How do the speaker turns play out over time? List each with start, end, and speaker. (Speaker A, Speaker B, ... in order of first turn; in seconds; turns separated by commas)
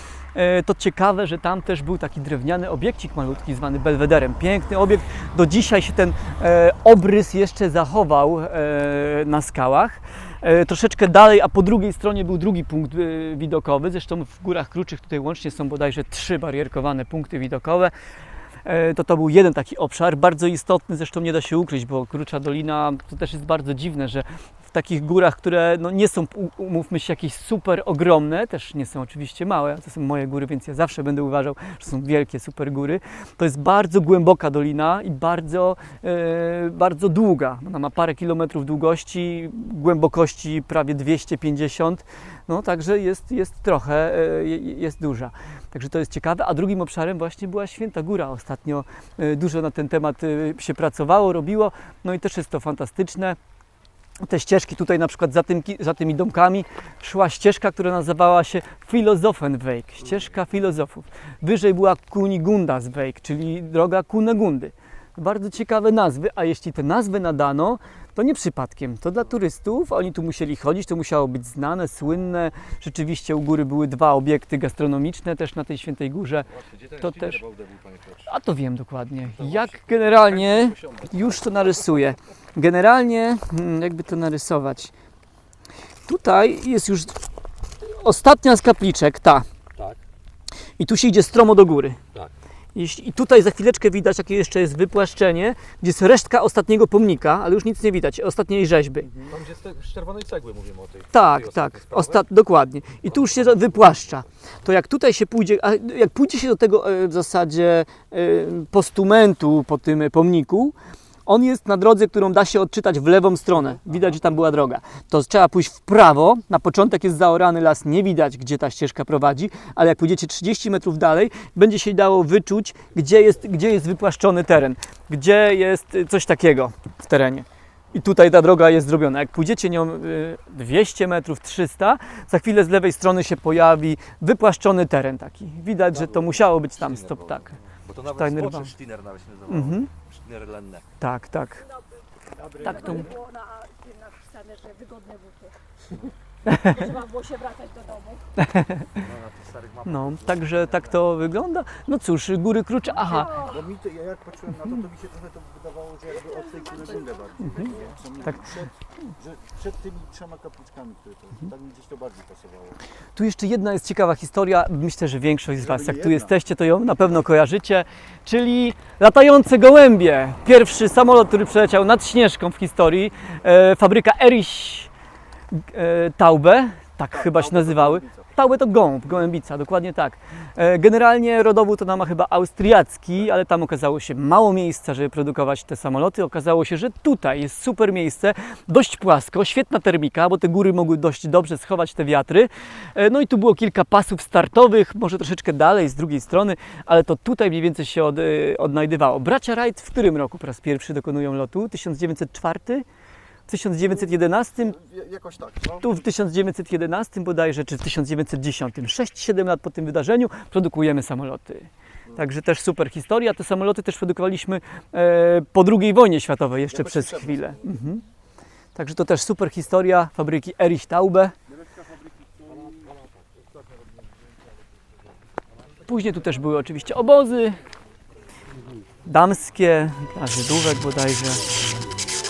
Speaker A: 0.3-17.9, Speaker A: 18.6-53.4, Speaker A: 54.2-77.4, Speaker B: 76.6-78.0, Speaker A: 78.2-84.9, Speaker B: 79.3-81.1, Speaker A: 86.0-87.2, Speaker A: 87.8-89.5, Speaker B: 89.7-90.0, Speaker A: 90.8-92.0, Speaker A: 92.7-99.1, Speaker B: 99.3-102.2, Speaker A: 101.1-110.7, Speaker B: 103.0-103.9, Speaker A: 111.2-137.6, Speaker B: 135.9-140.8, Speaker A: 138.2-138.7, Speaker A: 139.5-139.9, Speaker A: 141.0-141.7, Speaker C: 142.4-143.0, Speaker D: 142.5-145.6, Speaker A: 142.6-143.1, Speaker A: 146.5-146.8, Speaker D: 146.6-148.3, Speaker A: 148.4-149.0, Speaker B: 149.0-150.9, Speaker A: 149.8-153.5, Speaker C: 153.4-162.8, Speaker A: 158.2-158.5, Speaker A: 163.2-174.9, Speaker C: 165.6-166.3, Speaker A: 175.5-202.8, Speaker C: 177.1-178.3, Speaker A: 203.5-204.8, Speaker C: 204.6-206.0, Speaker A: 205.8-218.0, Speaker C: 216.7-217.8, Speaker A: 218.7-221.3, Speaker C: 221.6-222.9, Speaker A: 225.8-227.6, Speaker A: 229.0-231.5